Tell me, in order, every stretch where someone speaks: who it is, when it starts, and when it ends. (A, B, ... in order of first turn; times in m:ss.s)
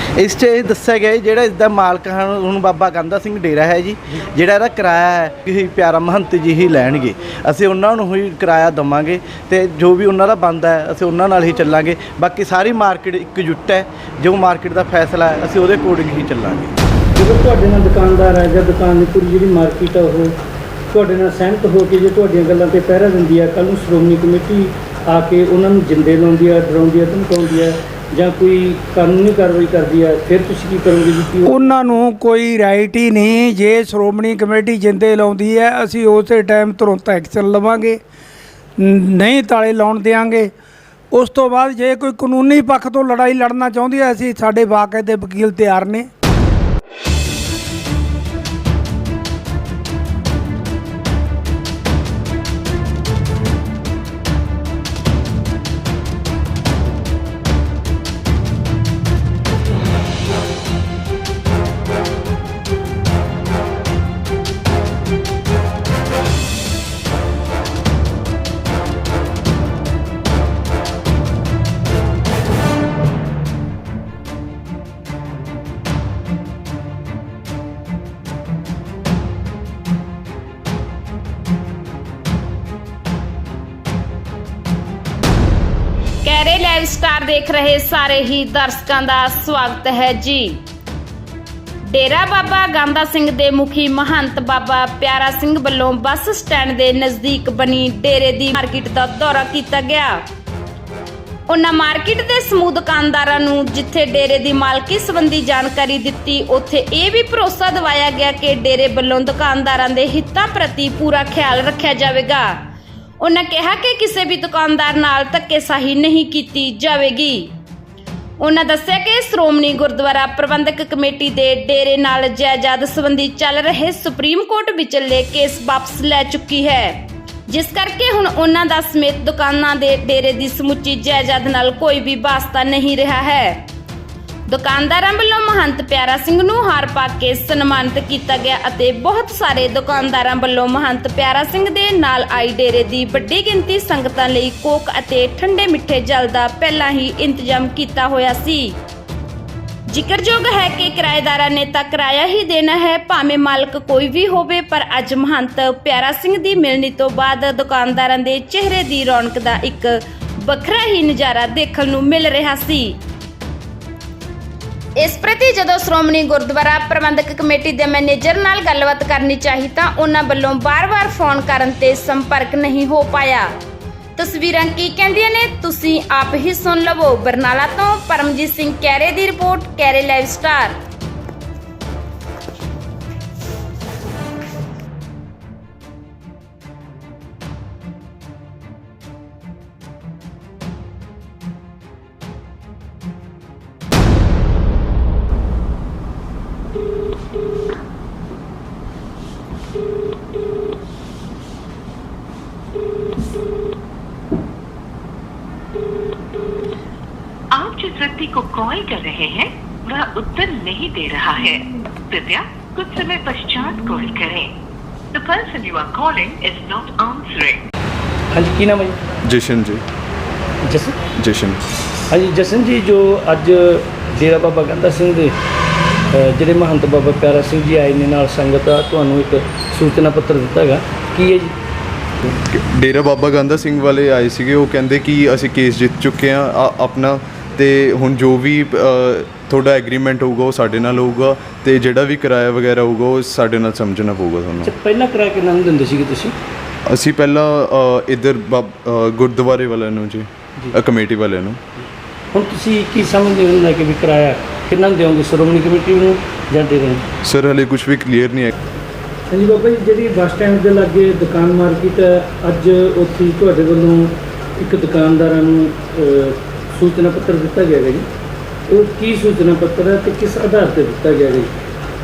0:00.2-0:16.7 A
0:17.2-0:20.3 B
0:20.9-0:31.8 B
0:31.5-0:38.0 C
0:38.8-0:40.5 C
0:41.1-0:46.1 C
1:26.2-1:30.6 D
1:31.8-1:40.2 D
1:41.5-1:52.6 D
1:53.2-1:57.5 D
1:58.4-2:13.6 D
2:14.5-2:28.8 D
2:29.9-2:43.0 D
2:45.0-2:53.5 D
2:54.2-3:00.7 D
3:27.6-3:31.6 E
3:32.2-3:34.4 E
3:35.2-3:37.6 E
3:38.3-3:39.0 B
3:39.3-3:39.8 F
3:40.7-3:41.0 B
3:41.2-3:41.6 F
3:42.1-3:45.3 B
3:46.1-3:51.5 B
3:52.2-4:04.7 F
4:04.6-4:06.3 B
4:06.9-4:11.6 F
4:12.3-4:17.1 B
4:17.2-4:18.5 F
4:19.3-4:28.1 B
4:28.7-4:31.5 B